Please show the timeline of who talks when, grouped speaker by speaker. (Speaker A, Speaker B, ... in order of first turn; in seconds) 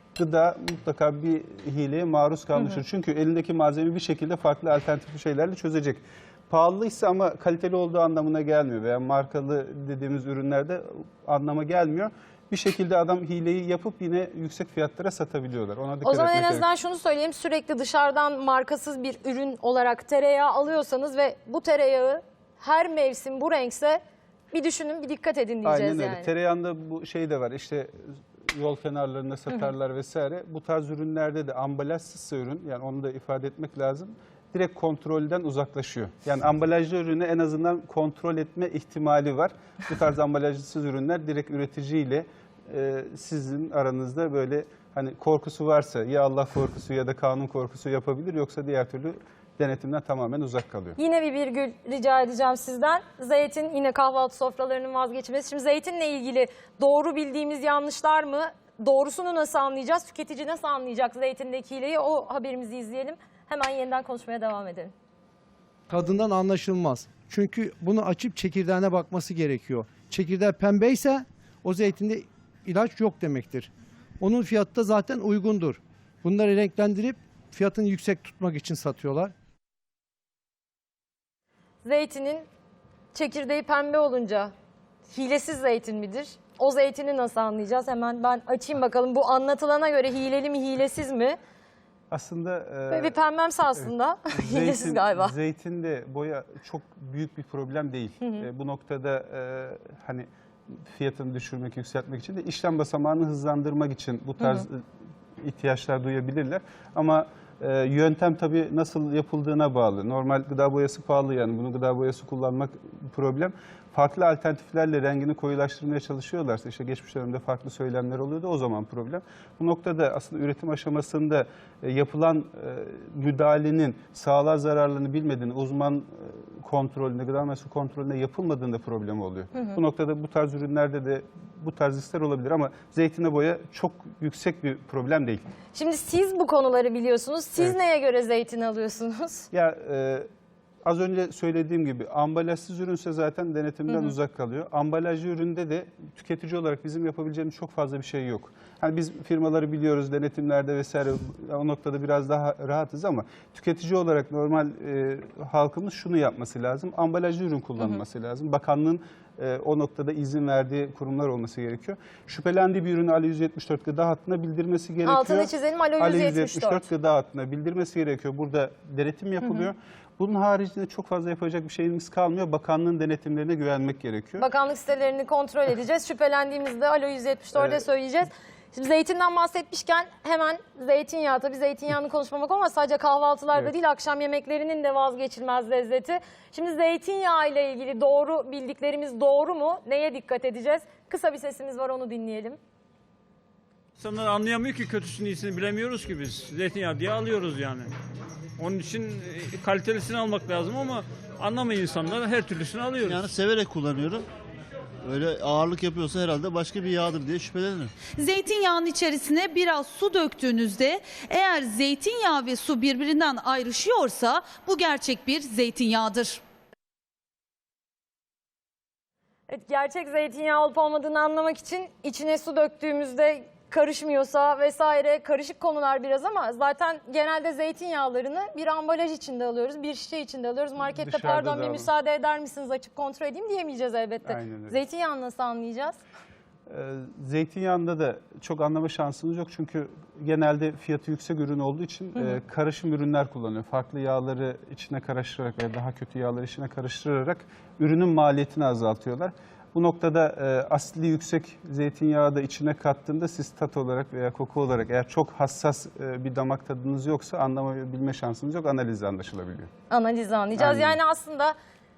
Speaker A: 0.2-16.7, 25.6-51.0, 92.1-93.2, 93.8-104.8, 105.4-135.4, 139.5-140.3, 140.8-174.4, 177.6-177.8, 230.9-231.9, 234.2-234.8, 236.7-259.7, 260.6-261.0
Speaker B: 16.0-24.0, 24.5-26.3, 51.0-64.9, 81.8-82.5, 83.1-84.5, 85.1-91.4, 92.9-95.3, 135.7-139.5, 143.9-144.2, 165.1-166.9, 174.4-192.6, 219.5-236.0, 259.9-261.6
Speaker C: 65.9-79.3
Speaker D: 194.0-197.9, 198.6-203.2
Speaker E: 203.0-204.3, 205.0-207.9
Speaker F: 208.2-216.4